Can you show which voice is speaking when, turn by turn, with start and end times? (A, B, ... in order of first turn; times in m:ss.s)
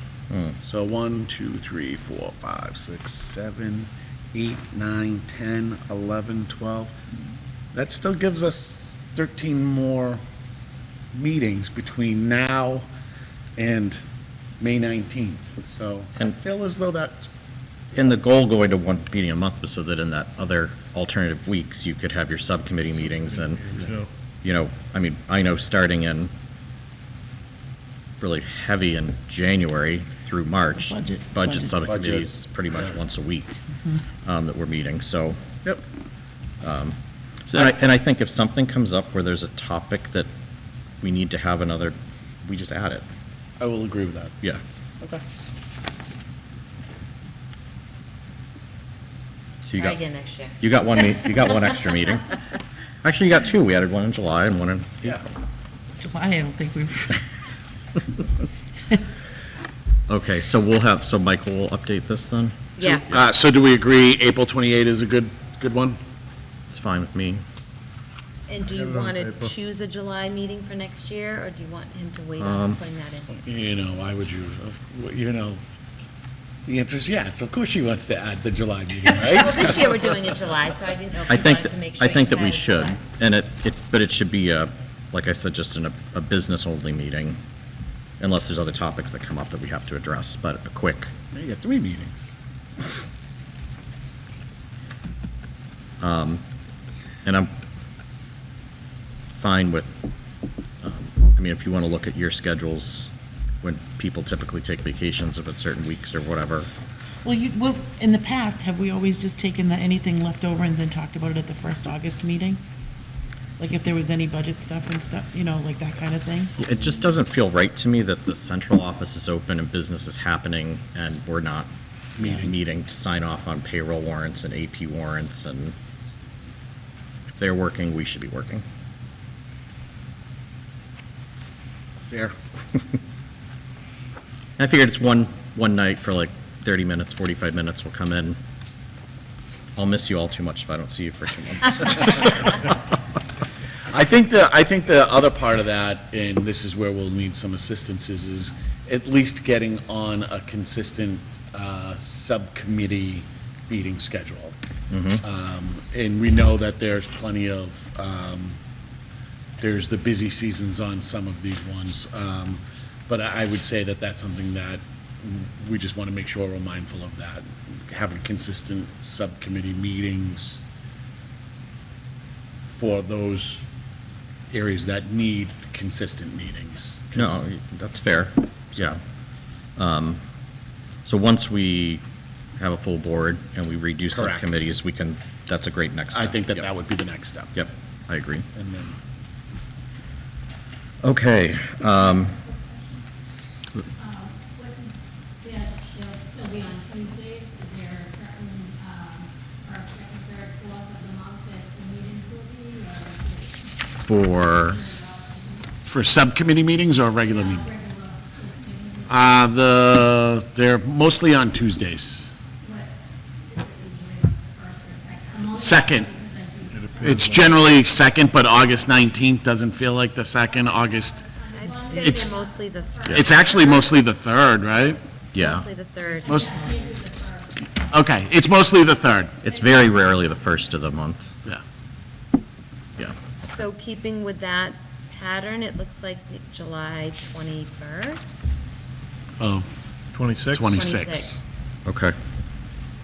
0:00.3-0:00.6 A
0:00.6-0:06.9 B
0:07.7-0:10.2 B
0:11.1-0:12.9 B
0:13.6-0:14.0 B
0:14.6-0:17.3 B
0:17.9-0:23.8 A
0:23.3-0:24.1 C
0:24.4-0:26.3 A
0:28.2-0:33.6 A
0:30.8-0:31.9 D
0:31.8-0:32.9 B
0:34.2-0:35.4 A
0:36.6-0:37.0 A
0:37.5-0:40.3 A
0:41.0-0:43.0 A
0:43.6-0:44.3 B
0:49.7-0:50.0 A
0:49.7-0:50.7 E
0:50.6-0:52.3 A
0:53.0-0:55.2 A
0:56.0-0:57.2 D
1:00.1-1:03.2 A
1:02.8-1:03.1 E
1:03.0-1:06.0 B
1:06.7-1:07.4 A
1:08.5-1:13.4 E
1:08.7-1:09.5 C
1:12.4-1:12.8 A
1:13.4-1:15.6 B
1:16.6-1:19.8 B
1:19.2-1:23.0 E
1:21.3-1:27.4 A
1:28.2-1:31.1 A
1:31.3-1:32.2 B
1:36.0-1:36.4 A
1:37.2-1:37.5 A
1:39.4-1:40.0 A
1:40.8-1:46.7 A
1:47.2-1:52.6 D
1:53.6-1:56.5 D
1:56.6-2:05.7 A
2:02.2-2:02.5 B
2:07.3-2:08.6 A
2:12.1-2:12.3 B
2:14.6-2:18.4 A
2:19.8-2:22.4 A
2:23.9-2:34.6 B
2:34.9-2:35.2 A
2:35.2-2:38.6 B
2:39.6-2:50.6 B
2:52.7-2:53.6 B
2:54.5-2:57.4 B
2:57.1-2:59.0 A
2:59.8-3:00.2 A
3:01.0-3:02.0 A
3:02.6-3:06.7 A
3:04.1-3:04.7 B
3:06.1-3:07.6 B
3:07.5-3:08.4 A
3:08.5-3:09.0 B
3:11.0-3:12.4 A
3:12.1-3:13.0 F
3:13.9-3:25.7 F
3:24.0-3:24.9 A
3:25.8-3:27.7 B
3:27.3-3:29.4 F
3:29.1-3:32.3 B
3:32.6-3:38.7 F
3:35.5-3:36.1 B
3:36.7-3:37.6 C
3:37.0-3:41.3 B
3:40.4-3:44.1 F
3:41.5-3:43.6 E
3:41.9-3:42.4 B
3:43.1-3:45.0 B
3:45.3-3:45.7 A
3:45.3-3:47.0 E
3:46.0-3:47.7 F
3:46.2-3:46.5 B
3:46.4-3:46.8 D
3:47.9-3:49.4 B
3:49.4-3:50.8 F
3:49.4-3:51.3 A
3:53.4-3:58.6 E
3:59.4-3:59.7 B
4:00.1-4:00.6 C
4:00.5-4:01.4 B
4:00.7-4:01.4 E
4:01.8-4:02.1 A